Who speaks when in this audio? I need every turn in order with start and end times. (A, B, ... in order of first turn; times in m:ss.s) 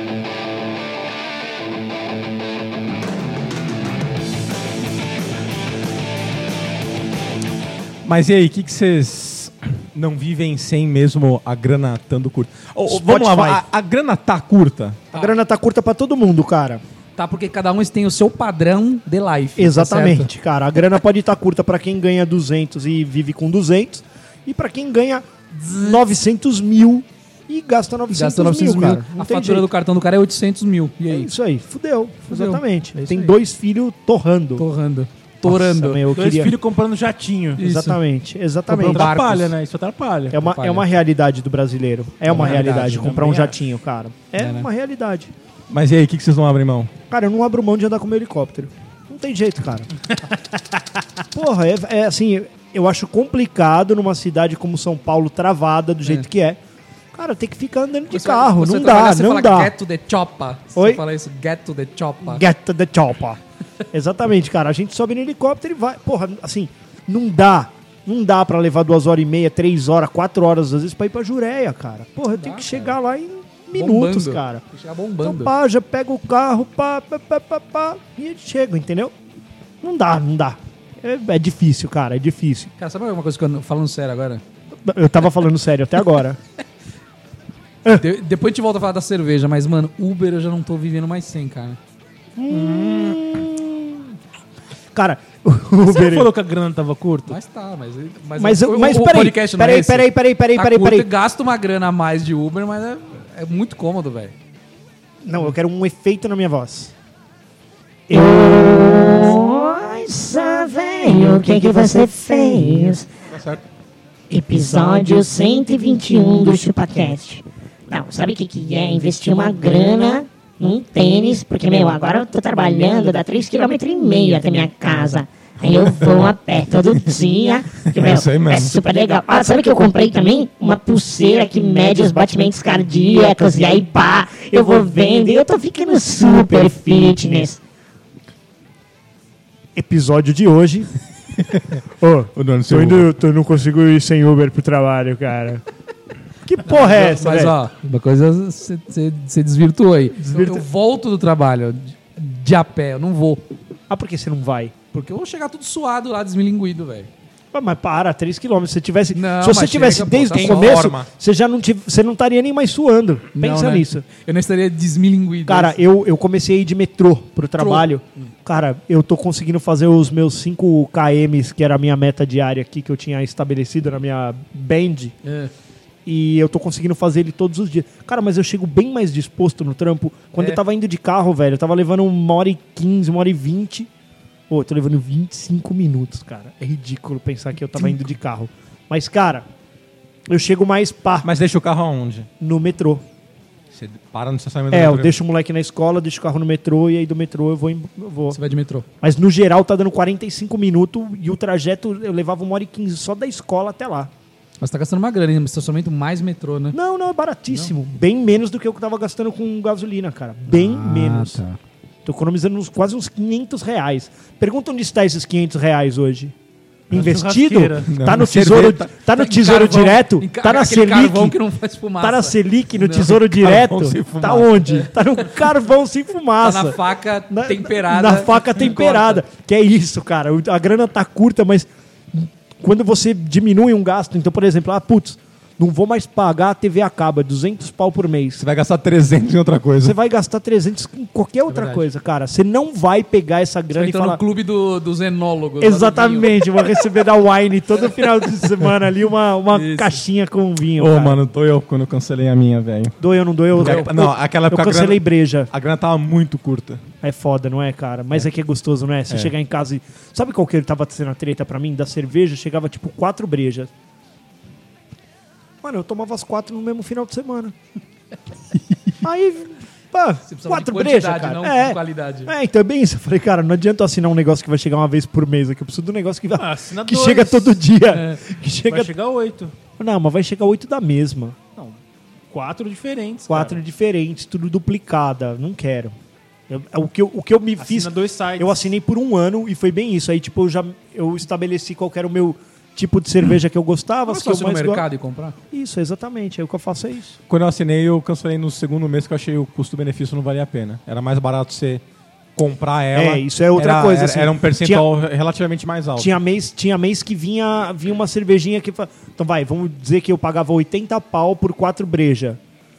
0:08.0-0:15.0 A
0:12.9-0:13.6 B
0:15.1-0:16.8 B
0:17.2-0:20.3 C
0:19.6-0:29.7 B
0:25.6-0:26.0 C
0:28.1-0:31.3 C
0:31.1-0:34.6 B
0:32.3-0:33.3 C
0:34.6-0:36.0 C
0:35.4-0:36.5 B
0:36.1-0:37.6 D
0:37.6-0:38.0 C
0:37.6-0:39.1 B
0:38.7-0:40.4 D
0:38.7-0:39.5 C
0:40.3-0:45.3 B
0:40.3-0:40.9 C
0:42.3-0:43.2 C
0:42.3-0:43.5 D
0:44.4-0:44.7 C
0:45.7-0:46.9 A
0:47.1-0:49.9 B
0:51.3-0:56.6 B
0:57.1-0:59.7 B
0:58.1-1:02.4 C
1:00.8-1:01.0 B
1:02.2-1:03.4 B
1:03.9-1:14.6 B
1:12.3-1:13.0 C
1:13.7-1:15.5 C
1:15.2-1:19.1 B
1:19.8-1:22.7 B
1:22.8-1:24.4 C
1:24.8-1:26.4 B
1:27.9-1:31.8 C
1:32.4-1:34.1 B
1:32.5-1:33.2 A
1:34.9-1:36.3 B
1:35.8-1:37.4 D
1:37.3-1:44.3 C
1:38.4-1:41.1 B
1:45.2-1:46.9 B
1:48.1-1:49.4 B
1:48.1-1:53.0 E
1:51.2-1:52.7 B
1:53.3-1:53.6 A
1:54.3-2:17.6 E
2:07.9-2:08.7 A
2:08.4-2:08.7 B
2:16.2-2:16.7 B
2:19.8-2:20.9 B
2:22.0-2:25.6 B
2:22.4-2:23.1 A
2:26.4-2:27.6 B
2:26.6-2:33.5 C
2:30.3-2:30.6 B
2:33.9-2:34.7 B
2:34.9-2:37.1 C
2:37.5-2:44.0 B
2:39.1-2:40.9 C
2:40.3-2:41.1 A
2:43.4-2:45.8 C
2:45.5-2:55.1 B
2:47.6-2:48.3 C
2:55.2-2:55.5 C
2:56.0-3:03.9 B
3:04.5-3:09.4 B
3:10.3-3:11.3 B
3:11.2-3:12.3 A
3:12.4-3:13.0 B
3:13.7-3:15.2 A
3:14.7-3:18.4 B
3:18.3-3:18.8 C
3:19.0-3:24.1 B
3:24.6-3:26.8 C
3:26.7-3:31.4 B
3:30.5-3:31.6 C
3:32.0-3:36.3 B
3:36.9-3:41.4 B
3:36.9-3:37.9 D
3:37.9-3:38.9 A
3:39.1-3:43.2 C
3:42.0-3:46.8 B
3:43.3-3:44.6 A
3:46.4-3:49.2 C
3:47.3-3:58.4 B
3:58.4-4:00.0 A
3:59.8-4:04.2 B
4:01.5-4:01.8 C
4:03.7-4:06.3 C
4:05.6-4:11.2 B
4:09.5-4:10.0 C
4:10.8-4:13.0 A
4:13.0-4:15.5 B
4:13.5-4:16.8 A
4:13.6-4:13.9 C
4:17.0-4:23.7 B
4:25.6-4:27.5 B
4:29.0-4:38.9 B
4:30.3-4:32.3 C
4:36.4-4:37.6 D
4:37.9-4:38.2 C
4:38.7-4:39.5 D
4:39.8-4:41.4 B
4:42.3-4:43.6 D
4:43.3-4:45.9 B
4:46.5-4:54.8 B
4:47.6-4:48.7 D
4:54.1-4:55.4 C
4:55.5-4:57.2 B
4:57.3-5:01.8 A
5:02.4-5:06.2 A
5:02.9-5:04.9 B
5:06.0-5:12.4 B